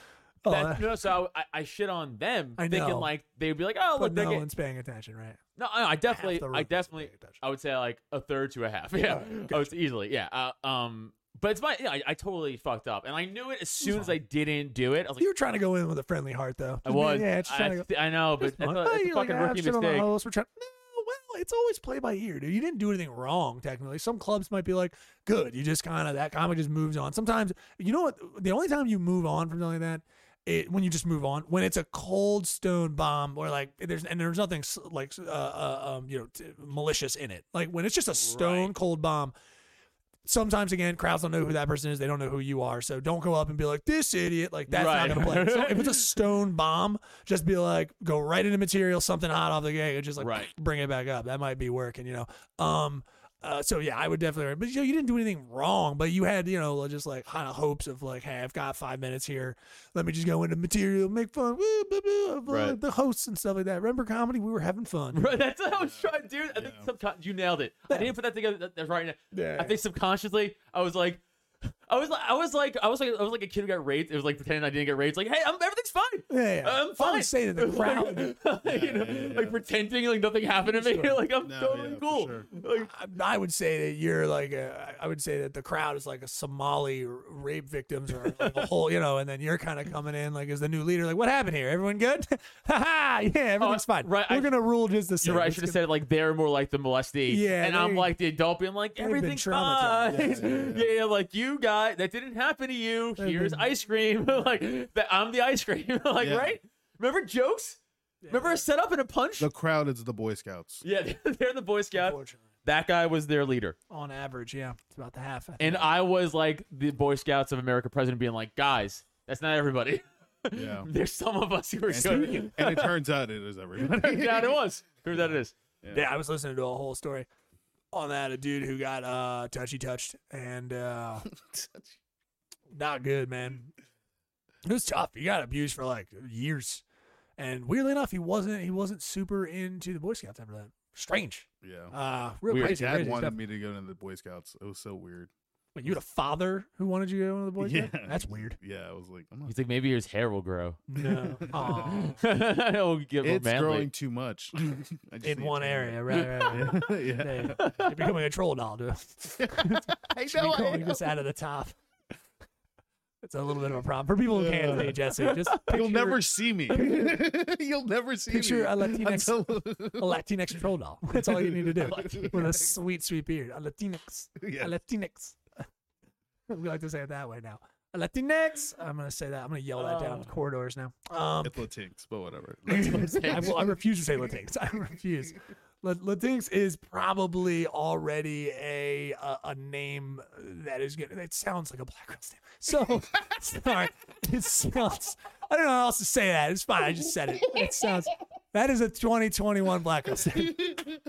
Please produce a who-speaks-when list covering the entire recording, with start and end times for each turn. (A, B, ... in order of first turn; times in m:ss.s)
0:00.4-0:00.9 A
0:00.4-0:04.4 B
0:02.6-0:03.1 A
0:04.0-0:05.4 A
0:05.6-0:15.3 B
0:06.1-0:07.4 A
0:09.0-0:09.7 A
0:13.8-0:14.1 A
0:15.2-0:39.3 A
0:16.8-0:20.1 B
0:38.1-0:38.7 B
0:40.2-1:05.3 A
0:44.7-0:46.1 B
0:50.2-0:50.5 B
1:02.5-1:02.8 B
1:05.1-1:11.2 B
1:05.7-1:06.9 C
1:09.3-1:09.7 A
1:11.9-1:22.9 B
1:16.3-1:18.3 A
1:18.6-1:19.6 C
1:20.6-1:21.2 A
1:21.4-1:22.5 C
1:22.8-1:35.8 A
1:28.2-1:28.7 B
1:33.6-1:34.6 B
1:35.2-1:47.8 B
1:37.3-1:38.1 A
1:39.0-1:40.5 A
1:40.1-1:40.9 C
1:43.2-1:43.7 A
1:46.2-1:46.6 C
1:48.2-1:48.6 A
1:48.3-1:49.5 B
1:49.4-1:50.8 C
1:50.8-1:53.8 B
1:51.9-1:52.4 A
1:53.9-1:55.9 A
1:55.6-2:02.9 B
2:00.5-2:00.9 C
2:01.9-2:04.6 C
2:02.0-2:02.5 A
2:03.8-2:05.6 B
2:05.9-2:07.2 A
2:07.9-2:11.2 A
2:11.3-2:11.9 C
2:12.7-2:13.7 A
2:14.6-2:16.8 A
2:17.4-2:23.4 A
2:21.6-2:21.9 C
2:22.5-2:22.8 B
2:22.5-2:25.3 C
2:25.7-2:28.6 A
2:27.6-2:29.5 C
2:29.4-2:30.8 B
2:30.9-2:32.2 A
2:31.0-2:32.1 C
2:31.5-2:33.9 B
2:33.2-2:37.6 C
2:35.2-2:41.7 A
2:36.1-2:36.8 B
2:37.5-2:38.0 B
2:39.4-2:41.0 C
2:43.2-2:47.2 A
2:44.3-2:45.0 C
2:45.2-2:45.6 B
2:45.7-2:50.2 C
2:48.3-2:55.4 A
2:51.1-2:52.7 C
2:51.8-2:52.4 B
2:54.4-2:54.7 C
2:56.5-3:01.6 A
2:59.8-3:00.3 B
3:01.4-3:03.3 C
3:02.7-3:03.6 B
3:02.7-3:20.7 A
3:20.4-3:21.0 C